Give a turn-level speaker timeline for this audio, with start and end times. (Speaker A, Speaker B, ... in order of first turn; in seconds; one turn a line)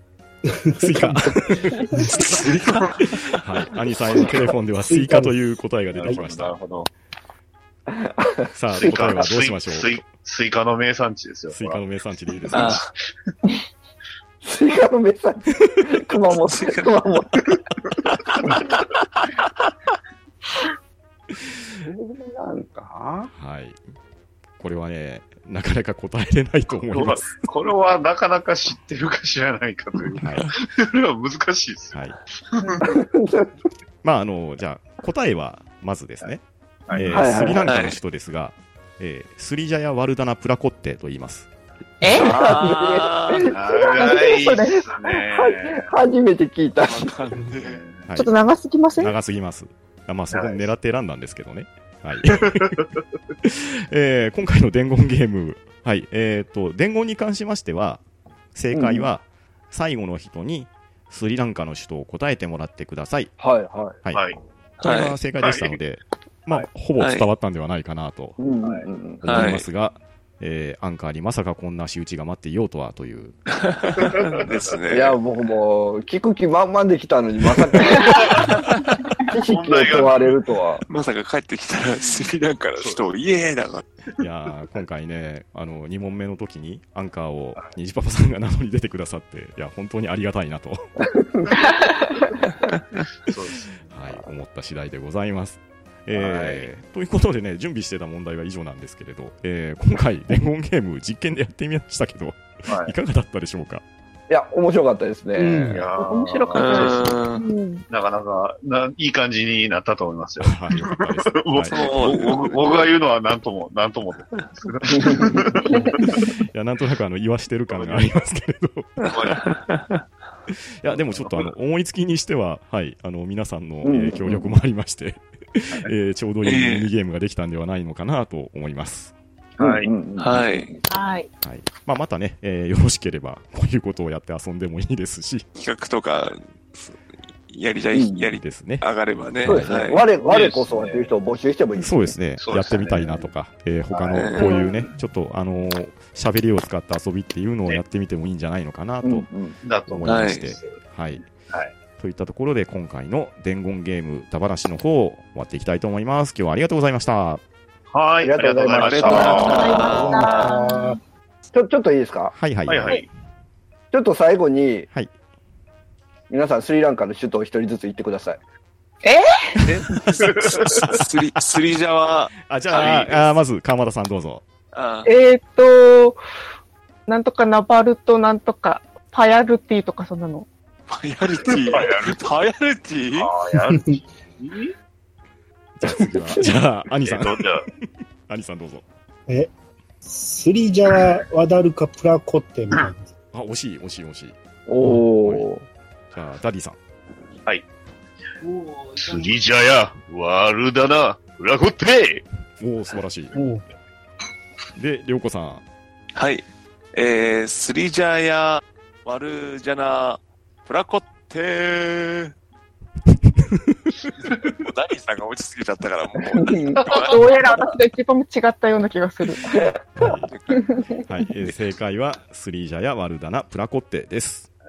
Speaker A: 0.5-2.2
Speaker B: 0.8-2.1
Speaker C: 2.1-2.9
Speaker B: 2.9-6.5
Speaker A: 4.8-5.4
Speaker D: 5.9-6.9
Speaker E: 7.9-8.9
Speaker B: 8.5-9.9
Speaker D: 8.8-11.8
Speaker B: 11.5-12.8
Speaker C: 12.5-12.9
Speaker E: 14.4-17.5
Speaker C: 16.5-16.9
Speaker E: 21.8-23.3
Speaker B: 23.3-23.8
Speaker B: 24.6-27.5
Speaker D: 26.8-33.0
Speaker B: 30.2-30.5
Speaker E: 32.8-33.5
Speaker B: 34.0-36.4
Speaker D: 36.9-37.3
Speaker B: 36.9-41.5
Speaker E: 37.1-37.6
Speaker C: 37.6-38.0
Speaker F: 42.0-42.3
Speaker C: 42.1-43.5
Speaker E: 42.1-44.3
Speaker D: 43.5-45.9
Speaker F: 43.7-44.8
Speaker E: 45.0-47.1
Speaker C: 46.9-47.8
Speaker D: 47.6-48.1
Speaker F: 48.2-49.1
Speaker B: 49.0-52.9
Speaker D: 52.4-52.9
Speaker B: 53.4-58.0
Speaker B: 58.5-63.3
Speaker E: 58.7-59.1
Speaker E: 63.4-64.0
Speaker D: 64.1-64.4
Speaker C: 64.8-65.2
Speaker B: 64.8-68.4
Speaker D: 65.4-65.8
Speaker C: 67.0-67.2
Speaker E: 68.4-69.4
Speaker B: 69.2-73.3
Speaker C: 69.3-69.7
Speaker C: 73.6-75.2
Speaker D: 74.0-74.8
Speaker E: 74.9-78.5
Speaker D: 78.1-78.6
Speaker E: 79.3-80.8
Speaker D: 79.5-80.4
Speaker C: 80.9-83.8
Speaker D: 82.8-83.0
Speaker B: 84.2-90.9
Speaker E: 91.0-91.6
Speaker D: 93.3-93.8
Speaker B: 93.9-103.8
Speaker D: 96.2-96.7
Speaker D: 102.7-102.9
Speaker E: 104.3-105.8
Speaker A: 105.4-105.8
Speaker D: 105.7-107.2
Speaker F: 105.9-107.8
Speaker C: 106.6-107.5
Speaker D: 107.9-116.2
Speaker B: 110.4-111.8
Speaker C: 111.7-112.8
Speaker E: 114.9-115.4
Speaker B: 116.4-119.0
Speaker D: 117.7-118.1
Speaker D: 119.0-119.4
Speaker C: 119.1-120.0
Speaker B: 120.8-129.1
Speaker E: 123.8-124.5
Speaker C: 126.4-126.9
Speaker E: 129.6-130.7
Speaker D: 129.6-129.9
Speaker C: 130.2-130.7
Speaker F: 130.9-131.3
Speaker B: 131.4-135.5
Speaker C: 135.6-140.4
Speaker E: 137.9-138.3
Speaker B: 138.4-138.8
Speaker E: 139.4-142.2
Speaker B: 139.4-139.8
Speaker D: 140.3-141.0
Speaker B: 141.8-149.3
Speaker D: 142.4-143.2
Speaker E: 143.9-144.9
Speaker C: 144.2-144.5
Speaker E: 149.0-149.6
Speaker D: 149.6-150.7
Speaker B: 149.9-151.3
Speaker C: 150.1-150.5
Speaker B: 152.0-157.4
Speaker D: 157.9-160.0
Speaker E: 158.2-160.2
Speaker C: 158.7-160.6
Speaker F: 159.1-161.0
Speaker A: 159.9-161.0
Speaker E: 161.5-162.3
Speaker B: 162.3-163.0
Speaker D: 162.7-163.1
Speaker E: 163.9-164.9
Speaker E: 166.3-168.4
Speaker F: 169.0-169.7
Speaker C: 169.6-173.0
Speaker D: 170.2-171.0
Speaker B: 172.5-174.4
Speaker D: 172.7-173.2
Speaker C: 174.7-175.1
Speaker F: 175.1-176.2
Speaker F: 177.1-180.5
Speaker C: 180.9-183.3
Speaker D: 181.5-182.2
Speaker D: 183.1-184.7
Speaker A: 183.7-183.9
Speaker B: 185.8-187.5
Speaker D: 187.1-187.7
Speaker B: 188.3-188.8
Speaker A: 190.0-193.1
Speaker B: 193.3-194.4
Speaker E: 194.7-195.6
Speaker B: 194.9-195.5
Speaker B: 196.1-196.8
Speaker D: 198.9-202.2
Speaker B: 202.6-203.4
Speaker A: 203.3-203.6
Speaker B: 204.8-205.6
Speaker C: 206.2-212.3
Speaker B: 213.3-213.8
Speaker C: 214.3-217.3
Speaker E: 216.4-216.8
Speaker F: 216.9-219.6
Speaker E: 219.5-219.8
Speaker B: 220.0-220.3
Speaker C: 220.1-220.7
Speaker F: 220.5-220.8
Speaker B: 221.1-224.5